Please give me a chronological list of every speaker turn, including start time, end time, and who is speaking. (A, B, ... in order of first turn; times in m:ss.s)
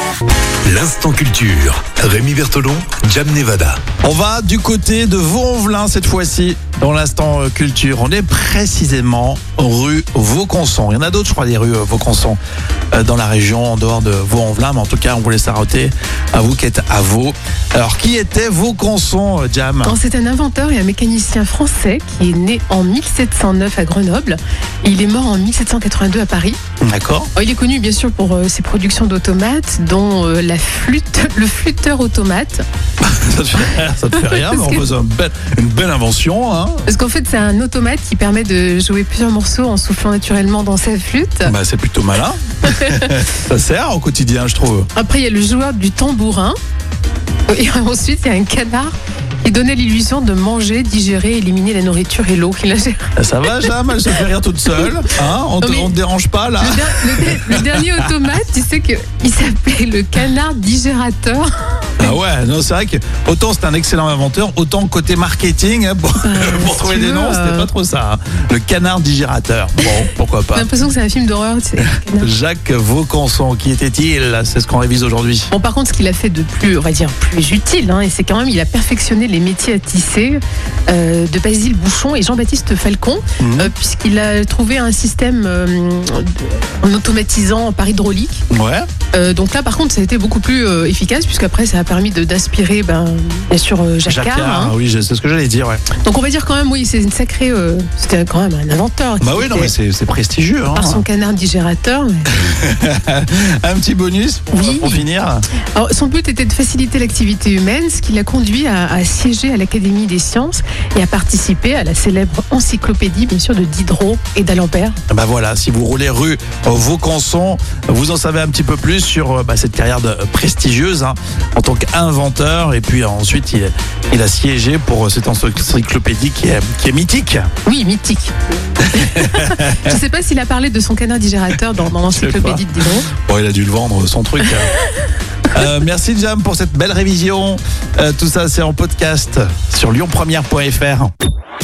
0:00.6-0:03.8 A
0:04.0-0:12.4 B
0:12.9-0:20.0 B
0:19.8-0:26.6 C
0:26.8-0:27.3 B
0:27.4-0:32.6 C
0:33.0-0:36.8 B
0:34.2-0:34.8 C
0:36.9-0:41.5 C
0:41.4-0:44.9 B
0:42.7-0:43.2 C
0:44.9-0:46.6 C
0:47.5-0:53.7 C
0:53.2-0:58.1 B
0:55.6-0:55.9 C
0:56.6-1:02.2 C
1:02.0-1:10.7 B
1:06.2-1:07.7 C
1:10.5-1:12.3 C
1:12.2-1:15.5 B
1:15.5-1:28.4 C
1:23.4-1:23.7 B
1:28.5-1:28.9 B
1:29.1-1:34.7 C
1:34.0-1:35.8 B
1:36.0-1:39.7 C
1:39.2-1:41.0 B
1:40.7-1:42.3 C
1:42.3-1:45.5 B
1:44.5-1:45.0 C
1:45.7-1:55.0 C
1:55.1-2:07.5 B
2:07.6-2:13.1 C
2:08.9-2:09.9 B
2:12.1-2:14.7 B
2:15.5-2:21.1 B